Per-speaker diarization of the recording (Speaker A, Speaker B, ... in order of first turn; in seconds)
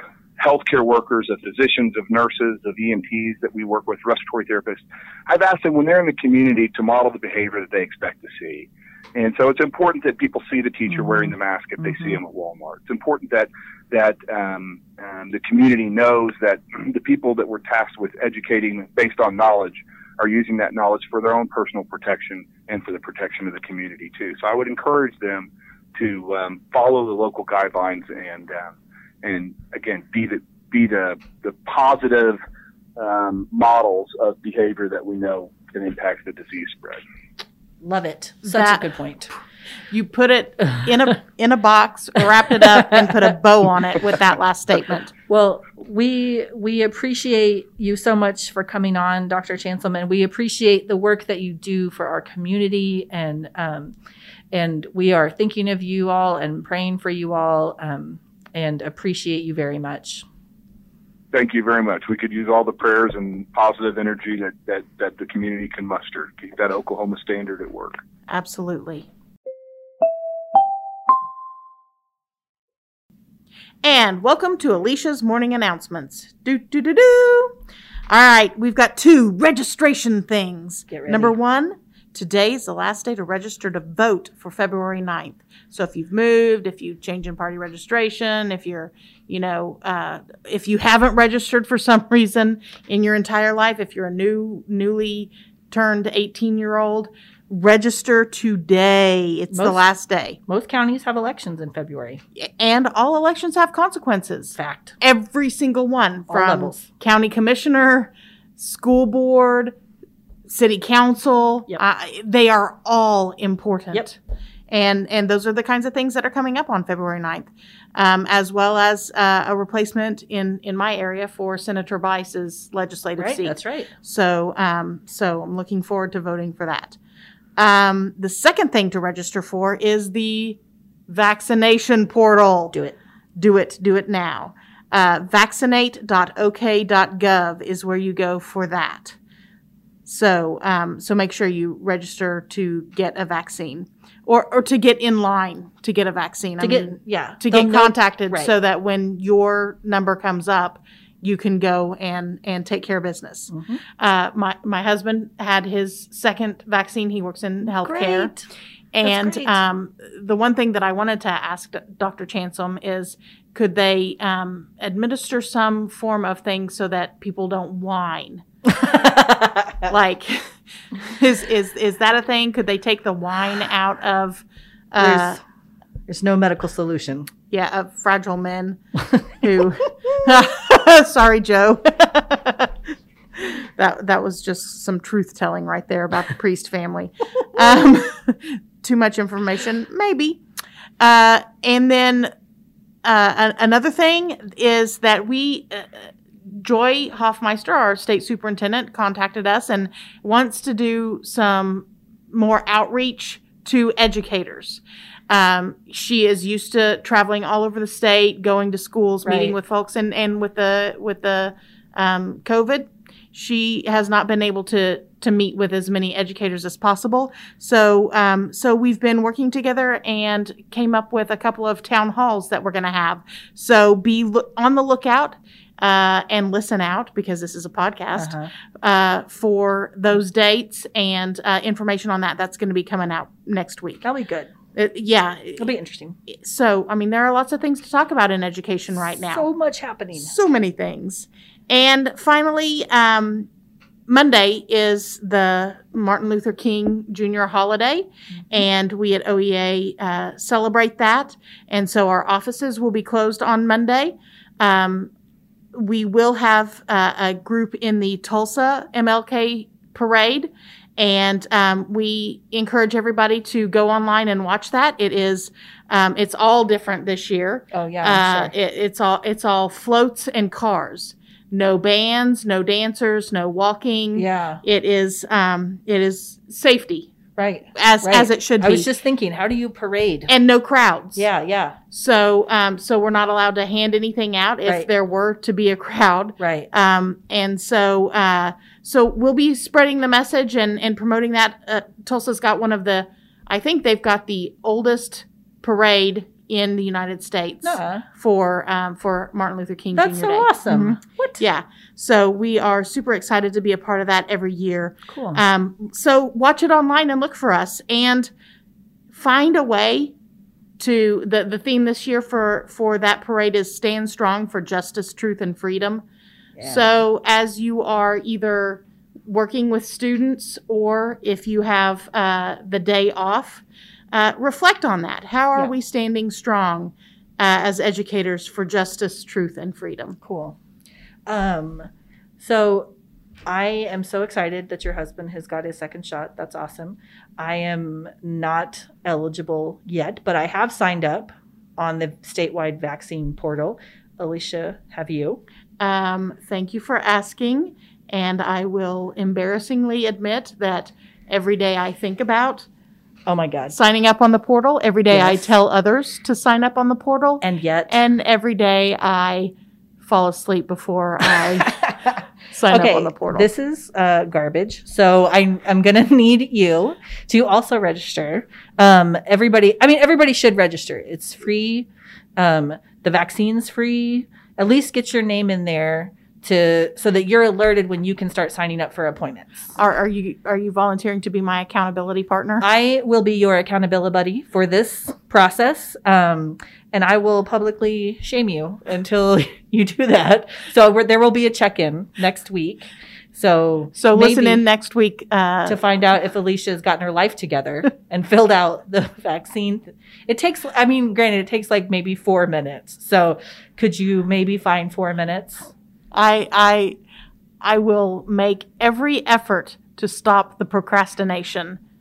Speaker A: 0.4-32.4, 33.0-37.0, 61.3-68.0
Speaker B: 11.0-11.3, 37.8-39.3, 45.3-53.9, 54.5-60.2, 80.9-81.3, 99.5-99.8, 100.5-102.2, 104.5-105.0, 106.3-106.8, 123.2-123.9, 132.7-133.0, 146.6-148.5, 153.5-153.8, 157.7-158.5, 159.0-159.6, 168.8-169.7, 175.0-175.4, 176.1-177.3, 209.2-209.5, 228.1-228.5, 234.0-234.5, 235.6-236.2, 239.3-240.3, 267.7-268.5, 274.1-274.6, 277.4-280.3, 281.1-281.8, 286.4-286.7, 297.6-298.0, 299.9-301.4, 305.1-305.4, 316.6-316.9, 330.2-330.6, 331.2-332.9, 333.4-345.4, 353.2-353.7, 355.1-355.5, 357.4-358.0, 361.6-362.1, 362.7-379.7, 382.6-394.6, 395.6-405.7
Speaker C: 38.4-38.9, 39.9-45.1, 68.3-69.1, 73.8-77.5, 78.1-100.4, 102.3-109.8, 110.5-114.2, 114.7-127.0, 127.6-132.7, 133.3-139.2, 140.0-158.3, 158.9-168.4, 169.9-175.4, 177.5-178.8, 179.4-182.8, 183.3-190.4, 191.0-192.3, 193.0-234.0, 234.7-235.7, 236.3-239.5, 240.2-243.5, 244.1-255.1, 255.7-277.1, 277.7-278.9, 280.3-281.2, 281.9-308.3, 309.1-310.1, 310.8-316.0, 316.6-330.2, 345.8-352.7, 353.7-361.8, 362.5-363.5, 379.7-382.6, 393.9-395.8, 406.1-407.0, 407.6-411.8